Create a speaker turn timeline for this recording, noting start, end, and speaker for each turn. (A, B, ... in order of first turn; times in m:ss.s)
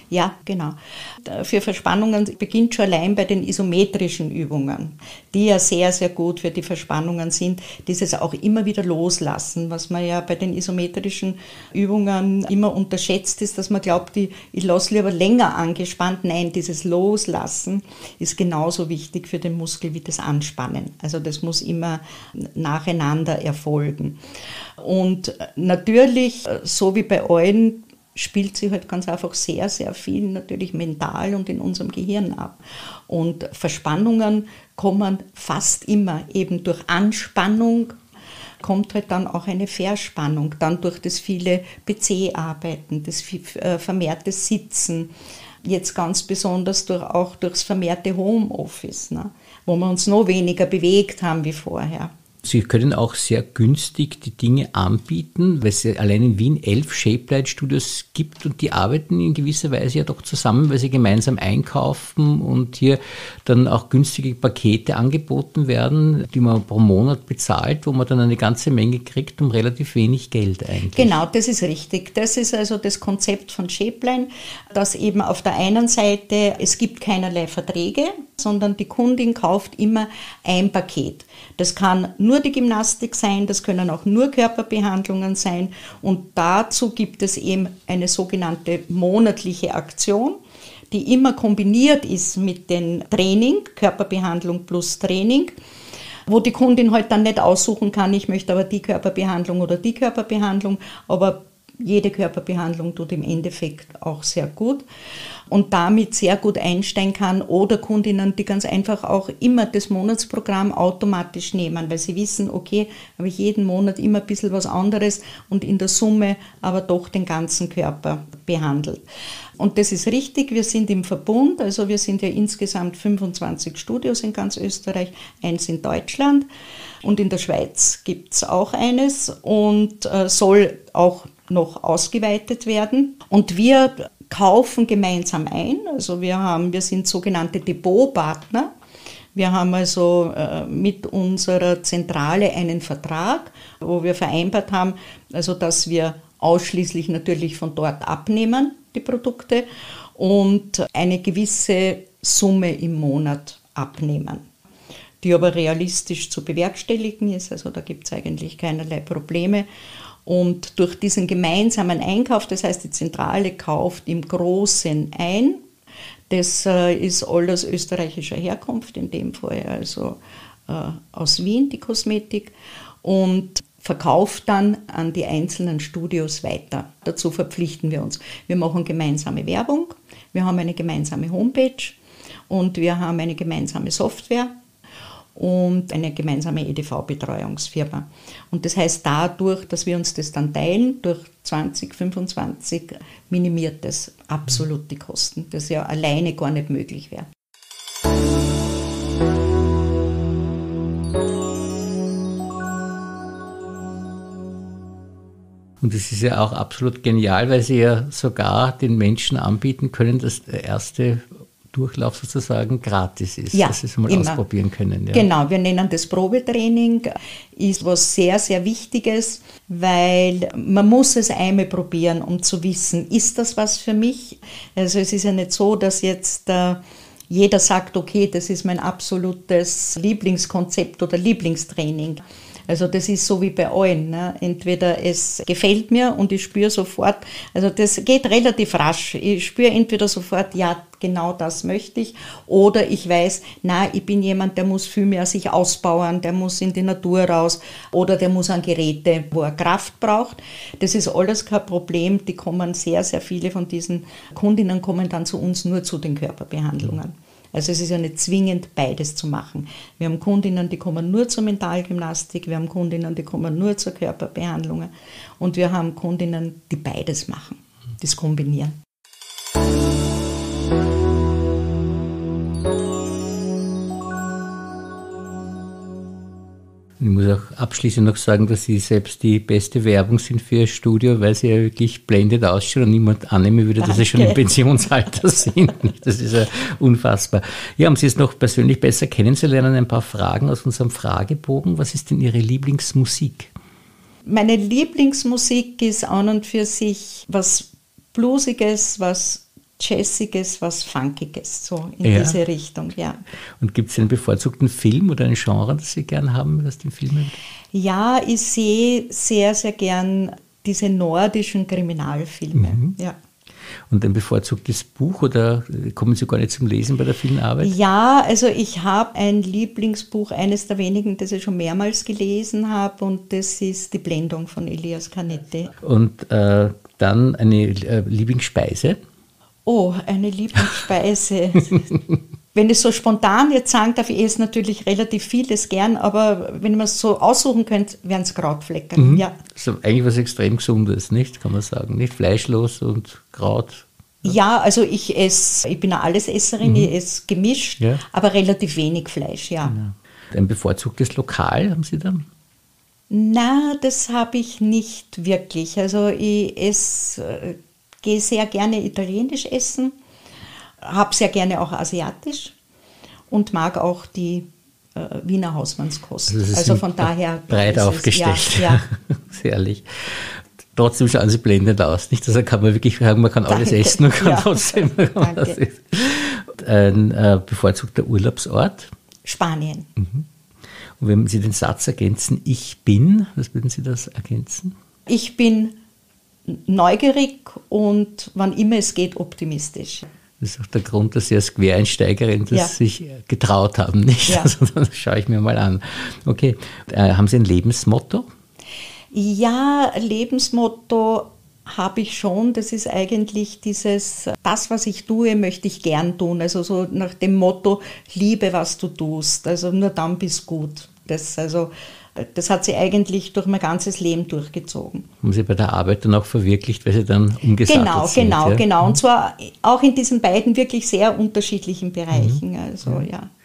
0:00.1-0:24.2 A
0:24.8-0:38.0 A
0:38.6-0:45.1 A
0:45.6-0:52.1 A
0:52.4-1:11.1 B
1:10.9-1:35.5 A
1:36.3-1:44.8 A
1:45.5-1:59.0 A
1:59.6-2:06.4 A
2:07.0-2:18.7 A
2:19.3-2:34.4 A
2:35.2-2:39.6 A
2:40.2-2:45.6 A
2:46.3-3:04.5 A
3:05.3-3:17.3 A
3:25.8-3:35.2 B
3:33.5-3:34.4 A
3:35.1-4:28.8 A
4:37.0-4:53.5 B
4:43.8-4:44.4 A
4:54.2-5:03.2 A
5:02.0-5:02.4 B
5:03.6-5:07.4 B
5:07.7-5:13.2 A
5:12.5-5:13.0 B
5:13.9-5:17.7 B
5:17.6-5:25.7 A
5:25.8-5:29.0 B
5:29.6-5:31.8 A
5:32.5-5:39.4 A
5:39.0-5:44.3 B
5:44.2-5:49.8 A
5:46.6-5:46.9 B
5:49.6-5:52.2 B
5:53.1-6:00.0 A
6:00.8-6:02.6 A
6:03.3-6:08.8 A
6:06.3-6:18.9 B
6:13.5-6:15.6 A
6:19.2-6:19.9 A
6:20.0-6:20.3 B
6:21.0-6:24.8 B
6:25.1-6:25.8 A
6:26.5-6:30.1 A
6:30.4-6:38.3 B
6:39.1-6:55.0 A
6:55.2-6:59.0 B
6:57.6-7:03.3 A
7:02.1-7:03.0 B